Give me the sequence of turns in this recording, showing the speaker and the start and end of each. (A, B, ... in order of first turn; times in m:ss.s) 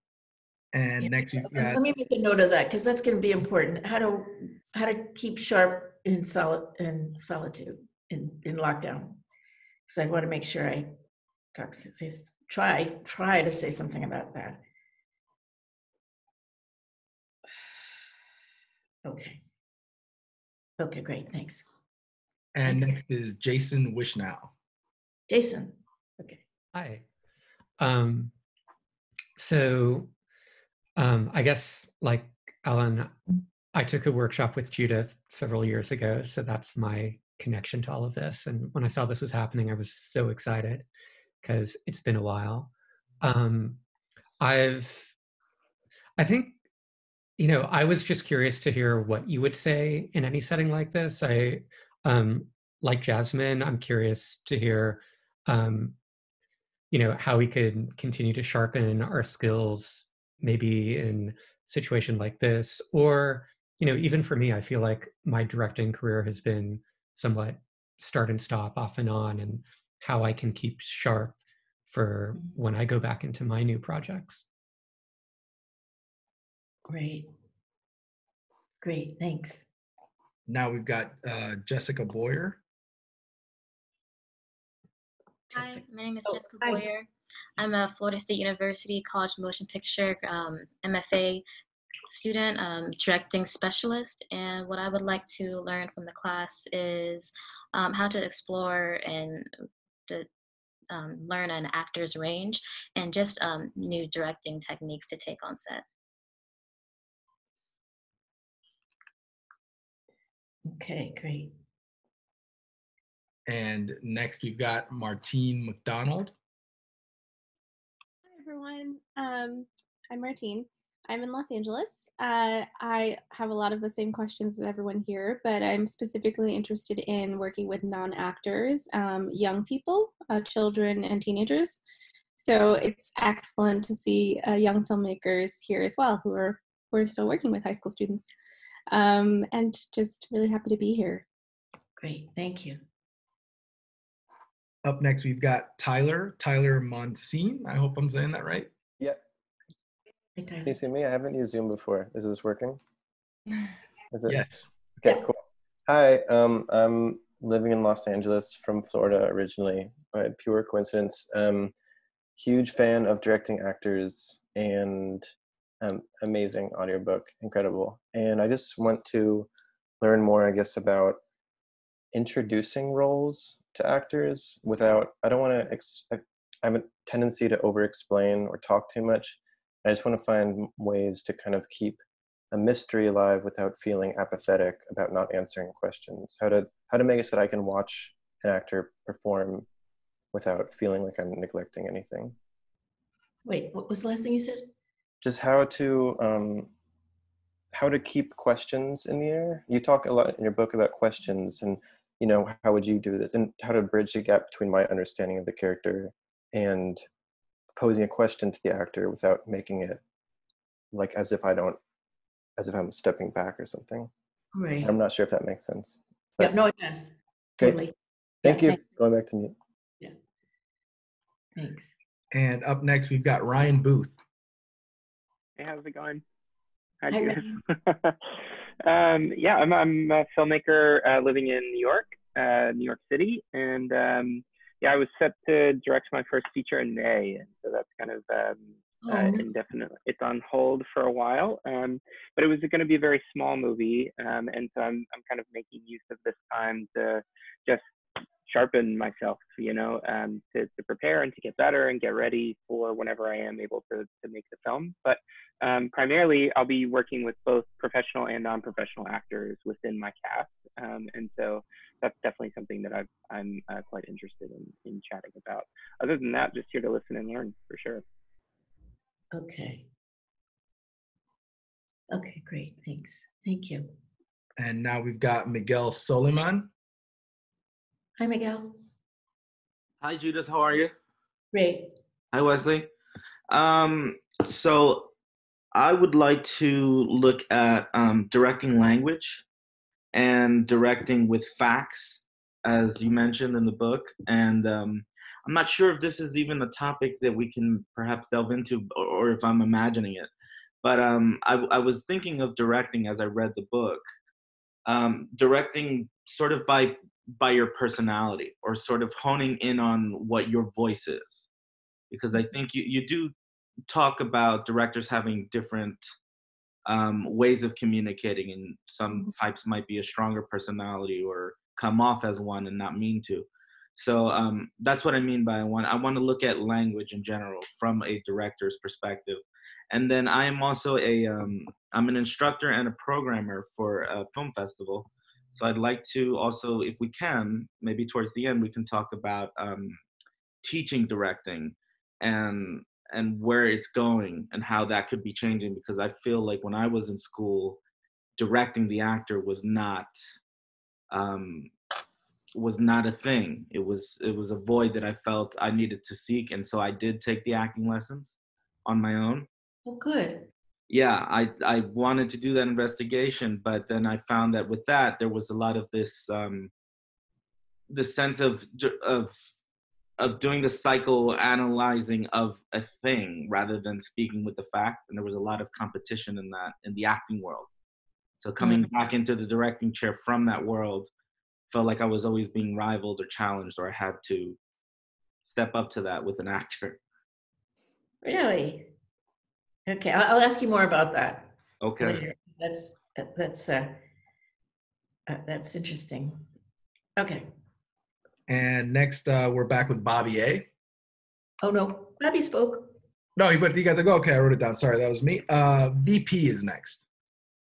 0:00.7-0:01.8 A
0:01.0-0:09.2 B
0:09.9-0:10.9 B
0:11.5-0:14.6 B
0:19.0-0:19.4 B
0:20.8-0:21.6 B
0:22.5-0:24.5 A
0:22.6-0:22.9 B
0:25.3-0:26.4 B
0:26.7-0:27.0 C
0:27.8-0:28.3 C
0:29.4-0:30.1 C
0:31.0-0:33.1 C
0:33.7-0:40.9 C
0:41.4-0:43.8 C
0:44.4-0:45.1 C
0:46.2-0:46.6 C
0:47.4-0:56.0 C
0:56.9-1:11.4 C
1:11.9-1:14.4 C
1:16.9-1:17.3 B
1:18.8-1:19.6 B
1:20.5-1:22.6 A
1:25.5-1:25.8 B
1:25.5-1:31.4 D
1:26.4-1:26.8 E
1:32.1-1:39.5 D
1:40.9-1:45.8 D
1:50.6-1:51.5 B
1:53.5-1:56.3 A
1:58.3-2:11.8 E
2:12.4-2:18.3 E
2:18.9-2:21.2 E
2:22.0-2:22.8 B
2:24.8-2:28.7 A
2:30.4-2:30.8 B
2:30.6-2:32.8 F
2:34.1-2:34.4 F
2:34.3-2:34.7 A
2:35.0-2:41.7 F
2:42.4-2:45.3 F
2:45.8-2:49.5 F
2:50.0-2:51.2 F
2:52.1-3:02.0 F
3:02.5-3:09.7 F
3:10.3-3:12.3 F
3:13.4-3:14.7 B
3:15.2-3:16.7 F
3:17.7-3:27.0 F
3:27.7-3:30.0 F
3:30.9-3:31.8 F
3:32.6-3:34.1 F
3:34.5-3:34.9 B
3:34.8-3:36.5 F
3:36.4-3:37.9 B
3:38.4-3:39.5 F
3:38.4-3:38.8 B
3:41.6-3:41.9 B
3:42.3-3:44.2 A
3:45.6-3:46.2 G
3:47.0-3:48.2 G
3:47.1-3:47.5 B
3:48.8-4:07.8 G
3:59.0-3:59.4 B
4:08.4-4:28.0 G
4:29.3-4:29.9 B
4:32.1-4:33.9 B
4:34.6-4:36.7 A
4:38.2-4:38.8 B
4:40.0-4:40.9 H
4:41.5-4:41.9 B
4:42.3-4:42.9 H
4:43.5-4:45.1 H
4:45.7-4:49.4 H
4:50.1-5:00.3 H
5:00.8-5:04.0 H
5:04.8-5:11.5 H
5:12.1-5:13.3 H
5:13.9-5:16.0 H
5:16.8-5:40.0 H
5:40.6-5:47.8 H
5:48.4-5:50.1 H
5:51.1-5:51.7 H
5:52.5-5:59.5 H
5:59.8-6:00.4 B
6:00.9-6:06.7 H
6:07.9-6:09.4 H
6:10.2-6:17.7 H
6:18.4-6:21.1 H
6:18.6-6:18.9 B
6:21.7-6:24.6 H
6:25.4-6:27.0 H
6:28.2-6:28.9 B
6:29.9-6:34.0 B
6:31.8-6:32.2 H
6:35.3-6:36.4 B
6:37.2-6:37.4 B
6:38.5-6:40.7 A
6:41.6-6:42.9 B
6:43.4-6:47.0 A